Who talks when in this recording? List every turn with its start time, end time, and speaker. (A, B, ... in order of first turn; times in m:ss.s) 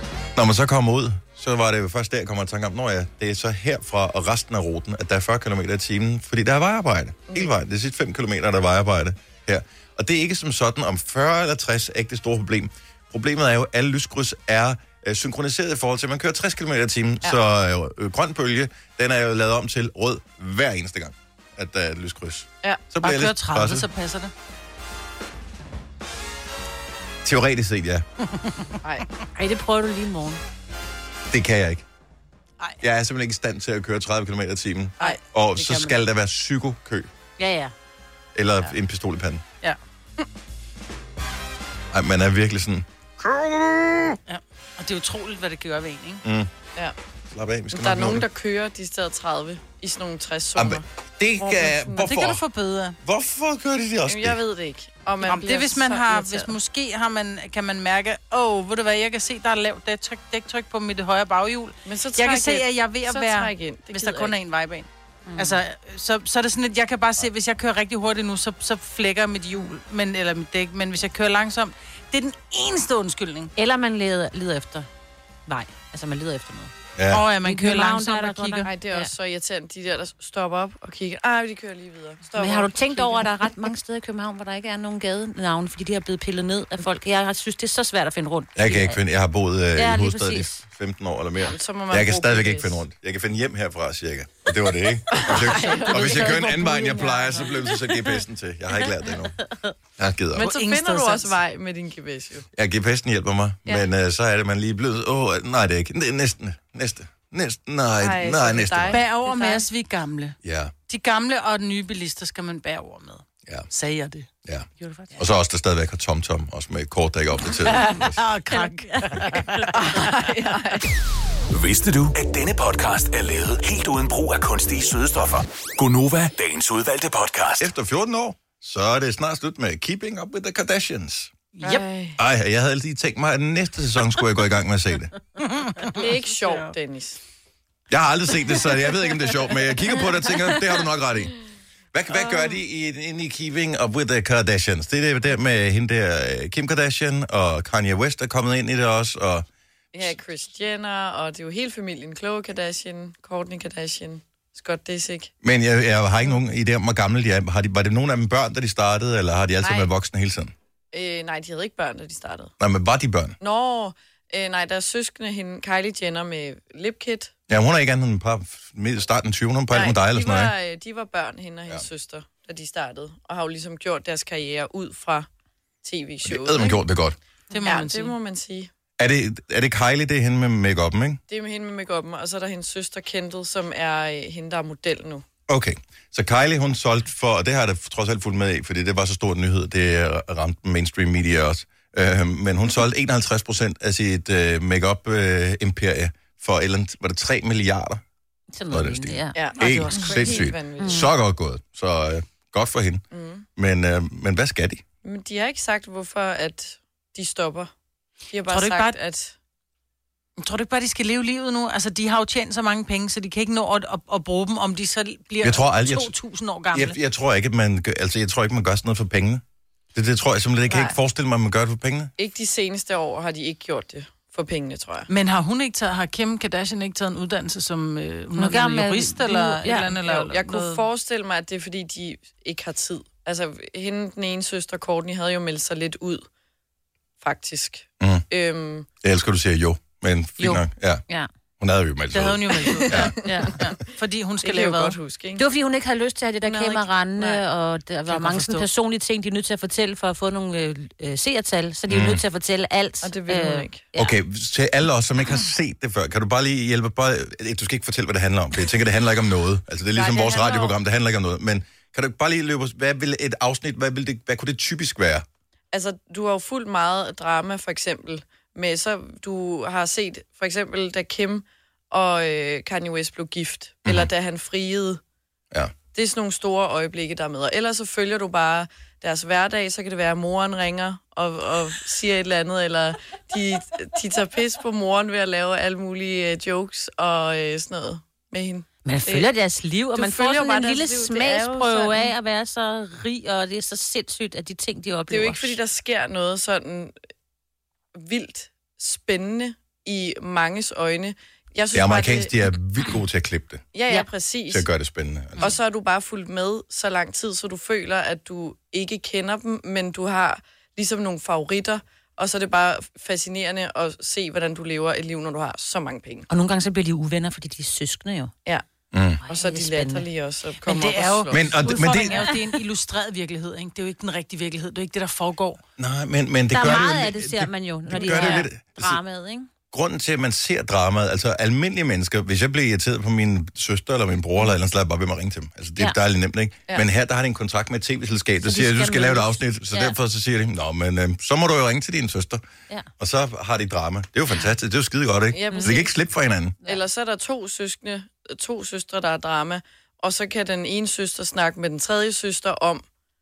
0:00.4-0:23.9 A
0:23.0-0:24.3 B
0:27.2-0:28.0 A
0:29.4-0:30.4 C
0:31.3-0:31.8 A
0:32.8-0:37.1 A
0:35.0-0:36.0 B
0:37.4-0:37.7 C
0:38.4-0:39.4 A
0:41.9-0:44.2 A
0:44.3-0:46.2 B
0:46.2-0:46.5 A
0:47.3-0:48.3 A
0:47.7-0:50.8 D
0:50.6-0:52.4 A
0:51.4-0:52.0 D
0:51.9-0:53.0 B
0:53.0-0:54.4 A
0:54.1-0:56.5 D
0:55.2-1:13.5 B
1:01.9-1:04.4 D
1:05.3-1:05.6 C
1:13.6-1:14.9 C
1:15.5-1:16.7 C
1:17.0-1:17.2 A
1:17.1-1:18.7 B
1:17.4-1:19.1 C
1:18.7-1:23.7 D
1:22.4-1:29.0 C
1:28.6-1:39.4 A
1:29.8-1:30.6 C
1:31.4-1:32.8 D
1:35.1-1:36.5 D
1:35.6-1:37.5 B
1:40.0-1:40.5 A
1:40.3-1:42.5 D
1:40.4-1:41.4 B
1:42.6-1:49.0 A
1:48.0-1:49.6 D
1:48.9-1:50.4 B
1:50.4-1:50.7 A
1:50.9-1:54.3 B
1:54.4-1:58.2 A
1:54.8-1:55.2 C
1:57.6-2:00.2 B
1:58.5-1:59.7 C
1:59.7-2:00.9 D
2:01.5-2:07.7 E
2:07.6-2:11.3 A
2:11.6-2:11.9 B
2:11.6-2:12.2 D
2:12.2-2:15.1 A
2:15.4-2:16.7 B
2:15.9-2:17.2 D
2:17.9-2:21.3 A
2:21.9-2:29.5 A
2:22.1-2:22.6 D
2:29.9-2:35.3 D
2:35.4-2:40.5 A
2:39.6-2:39.9 D
2:40.9-2:42.5 D
2:42.6-2:43.4 A
2:43.4-2:47.3 D
2:47.5-2:50.6 A
2:49.7-2:55.3 D
2:55.8-2:56.8 D
2:56.2-2:57.2 A
2:57.5-2:58.2 B
2:57.6-2:58.7 D
2:59.0-3:01.2 A
3:01.3-3:05.2 D
3:05.5-3:18.0 A
3:18.5-3:21.1 C
3:18.7-3:23.0 A
3:19.4-3:21.1 D
3:23.1-3:23.5 D
3:23.6-3:24.8 A
3:25.0-3:27.7 D
3:28.3-3:29.4 D
3:28.5-3:29.0 B
3:30.4-3:37.0 B
3:35.4-3:36.1 A
3:36.7-3:39.4 A
3:40.0-3:42.1 A
3:40.7-3:41.0 D
3:42.2-3:45.1 D
3:45.1-3:50.8 B
3:48.4-3:49.9 C
3:50.0-3:56.3 D
3:57.2-3:58.9 D
3:58.0-3:58.2 A
3:59.0-4:01.0 A
4:01.6-4:03.2 A
4:02.1-4:05.0 B
4:02.6-4:03.6 D
4:03.2-4:03.6 C
4:04.4-4:05.4 D
4:05.4-4:14.2 C
4:06.4-4:07.4 D
4:08.1-4:08.7 B
4:11.9-4:12.2 A
4:13.0-4:13.9 D
4:14.0-4:25.2 A
4:20.0-4:20.8 D
4:25.7-4:35.0 D
4:33.8-4:34.1 A
4:35.9-4:49.3 D
4:48.8-4:55.6 C
4:49.9-4:52.1 D
4:55.1-4:57.0 D
4:58.0-5:02.3 D
5:01.7-5:03.6 A
5:03.7-5:04.7 D
5:04.5-5:05.5 A
5:05.4-5:16.3 D
5:16.3-5:18.3 C
5:18.9-5:19.2 A
5:19.2-5:20.1 C
5:19.3-5:21.7 D
5:20.6-5:25.6 B
5:21.3-5:22.2 A
5:25.8-5:29.0 A
5:26.5-5:29.5 C
5:29.7-5:42.4 A
5:38.4-5:40.0 C
5:43.0-5:46.6 A
5:45.3-5:45.9 D
5:45.5-5:45.8 C
5:46.6-5:52.8 D